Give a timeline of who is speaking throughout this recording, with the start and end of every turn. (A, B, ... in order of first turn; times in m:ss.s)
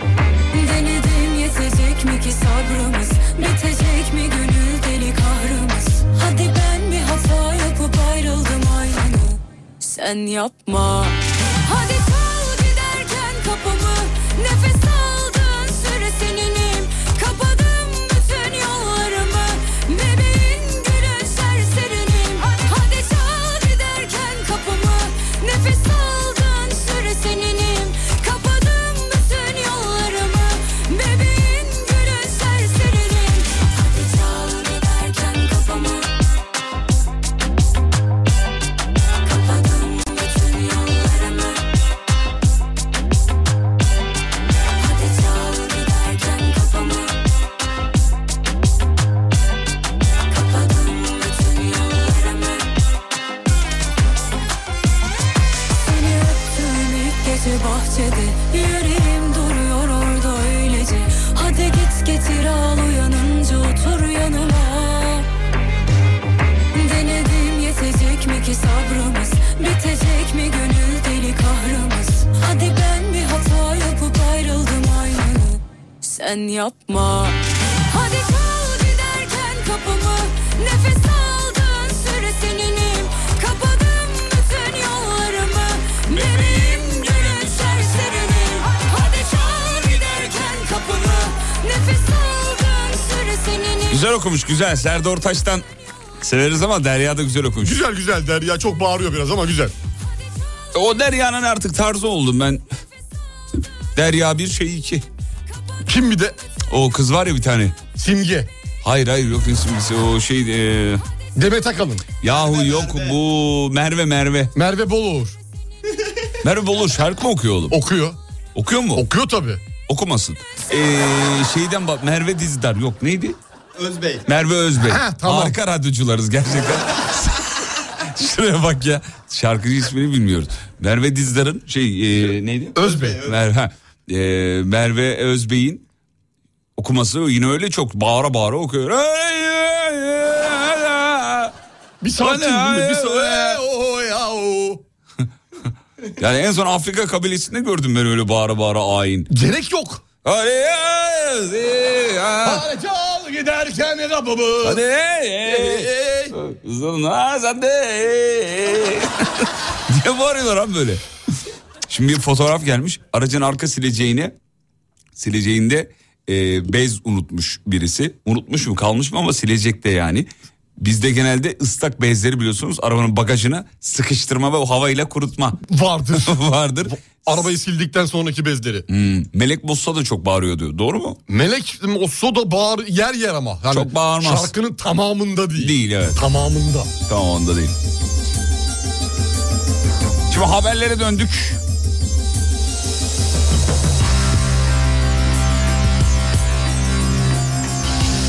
0:00.5-0:36.1 A
0:39.2-0:41.6 A
0:44.7-0:47.2 A
0:50.3-0:52.7 A
0:55.8-1:05.3 A
1:06.7-1:34.0 A
1:26.2-1:26.7 B
1:33.9-1:35.6 B
1:36.2-1:37.8 B
1:37.6-1:39.7 C
1:40.7-1:42.6 B
1:44.0-1:45.1 B
1:45.9-1:46.4 C
1:46.7-1:47.8 B
1:48.0-1:48.5 C
1:48.8-1:51.0 B
1:51.4-1:52.1 C
1:52.2-1:54.5 B
1:54.6-1:55.4 C
1:56.4-1:57.8 B
1:57.7-1:58.2 C
1:58.6-1:59.1 B
1:59.0-1:59.6 C
1:59.9-2:03.4 B
2:04.2-2:15.9 B
2:04.8-2:05.6 C
2:12.8-2:13.3 C
2:16.8-2:21.6 B
2:22.0-2:24.8 C
2:22.2-2:23.6 B
2:26.2-2:29.3 B
2:29.3-2:30.0 C
2:30.2-2:32.7 B
2:32.4-2:34.8 C
2:34.6-2:41.0 B
2:35.4-2:36.4 C
2:41.9-2:44.4 B
2:45.2-2:55.6 B
2:55.7-2:58.9 C
2:56.2-2:57.4 B
2:58.9-3:01.2 B
3:01.3-3:06.9 C
3:03.7-3:04.5 B
3:05.6-3:06.2 B
3:07.1-3:07.8 B
3:10.3-3:11.6 B